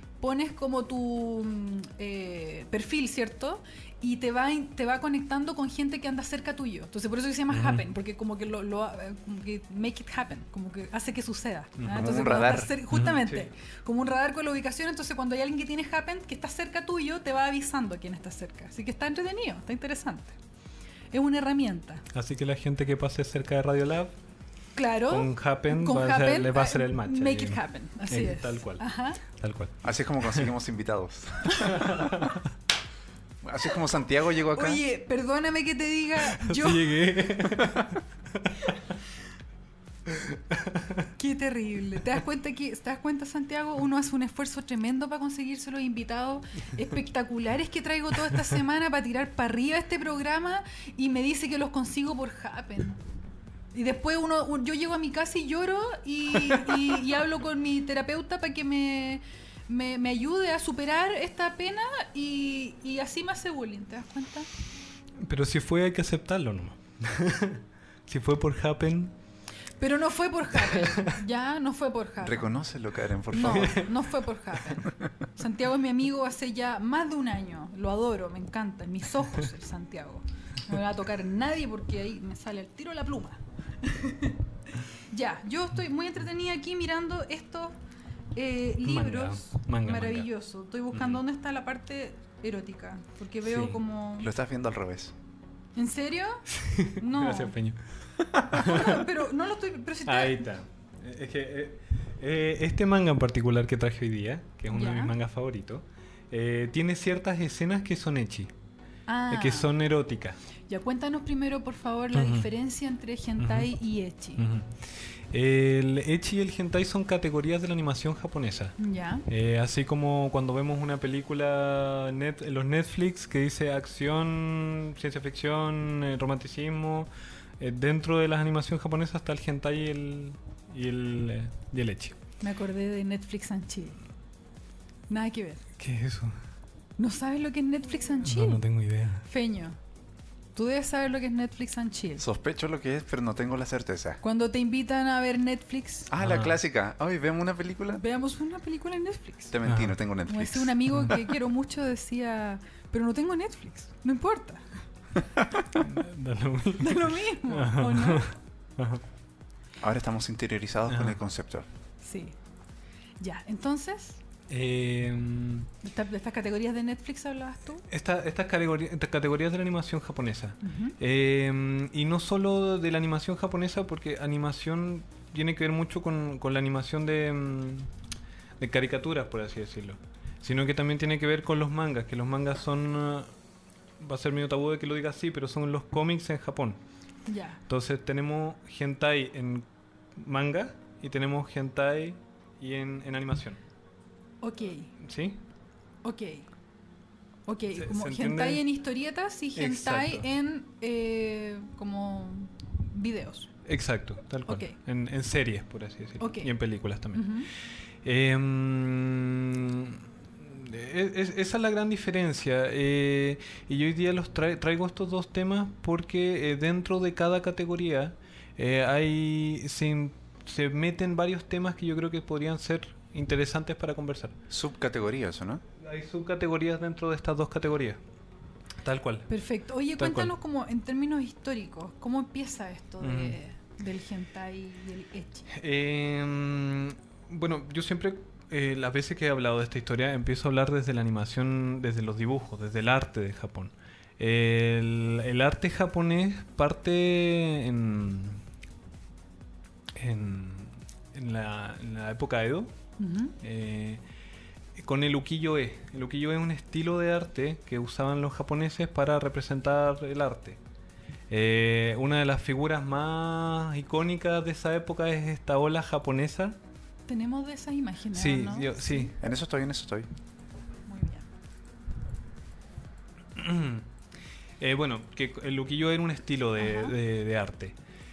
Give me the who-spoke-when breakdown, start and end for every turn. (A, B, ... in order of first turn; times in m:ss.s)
0:00.2-0:20.4 A
0:07.5-0:07.8 B
0:11.8-0:13.5 B
0:11.9-0:12.7 C
0:21.1-0:22.0 A
0:22.1-0:24.1 B
0:24.8-0:29.2 A
0:25.1-0:30.5 B
0:29.8-0:32.2 C
0:31.6-0:32.4 B
0:33.4-0:34.8 C
0:34.5-0:37.0 A
0:36.3-0:38.8 B
0:40.1-0:41.1 B
0:41.2-0:53.0 A
0:53.7-1:04.5 A
1:05.2-1:09.1 B
1:09.8-1:12.5 A
1:10.6-1:11.2 B
1:12.2-1:13.8 C
1:13.3-1:24.4 A
1:13.4-1:13.9 B
1:25.1-1:27.8 A
1:28.4-1:34.3 A
1:28.8-1:30.3 B
1:30.9-1:31.2 B
1:33.4-1:33.8 B
1:34.2-1:35.1 C
1:35.8-1:37.6 A
1:36.5-1:37.8 B
1:38.3-1:39.1 B
1:38.5-1:40.4 A
1:40.1-1:48.5 B
1:44.7-1:45.2 A
1:49.1-1:49.7 A
1:49.3-1:50.4 B
1:50.7-1:54.4 A
1:52.1-1:52.5 B
1:53.4-1:53.7 B
1:54.4-1:58.8 B
1:58.8-1:59.3 A
1:59.3-2:12.2 B
2:12.4-2:14.0 A
2:15.1-2:15.6 A
2:15.8-2:16.4 B
2:17.0-2:18.6 A
2:18.2-2:19.2 B
2:19.2-2:19.8 A
2:20.6-2:22.2 A
2:22.2-2:24.2 C
2:24.2-2:26.1 A
2:26.1-2:28.0 C
2:26.2-2:26.6 B
2:28.0-2:29.6 A
2:29.5-2:30.8 C
2:29.6-2:30.0 B
2:30.3-2:34.7 A
2:30.9-2:31.2 B
2:35.8-2:39.0 B
2:36.8-2:38.3 A
2:39.8-2:41.7 C
2:40.9-2:41.2 B
2:42.0-2:42.4 A
2:43.2-2:44.2 A
2:44.5-2:45.7 B
2:45.8-2:47.8 A
2:47.9-2:57.9 B
2:50.6-2:51.0 A
2:58.6-3:03.3 B
3:04.0-3:06.8 B
3:07.3-3:07.6 A
3:07.7-3:09.6 B
3:10.2-3:13.6 B
3:14.4-3:15.0 A
3:15.0-3:15.4 B
3:16.0-3:16.5 A
3:17.5-3:23.5 A
3:17.8-3:18.6 B
3:19.6-3:20.3 B
3:23.7-3:27.4 B
3:24.5-3:24.8 A
3:26.2-3:26.5 A
3:27.1-3:27.5 A
3:28.0-3:44.4 B
3:44.5-3:45.6 C
3:45.8-3:48.0 B
3:48.8-3:49.3 B
3:49.3-3:55.5 A
3:50.0-3:50.3 B
3:53.0-3:53.4 B
3:55.5-4:08.4 B
4:10.0-4:12.7 B
4:13.0-4:13.4 A
4:13.4-4:14.0 B
4:14.8-4:20.6 B
4:21.3-4:26.6 B
4:27.1-4:29.1 A
4:28.1-4:29.1 B
4:29.2-4:30.1 C
4:30.9-4:31.3 A
4:33.4-4:33.8 B
4:34.6-4:37.8 B
4:36.6-4:37.0 A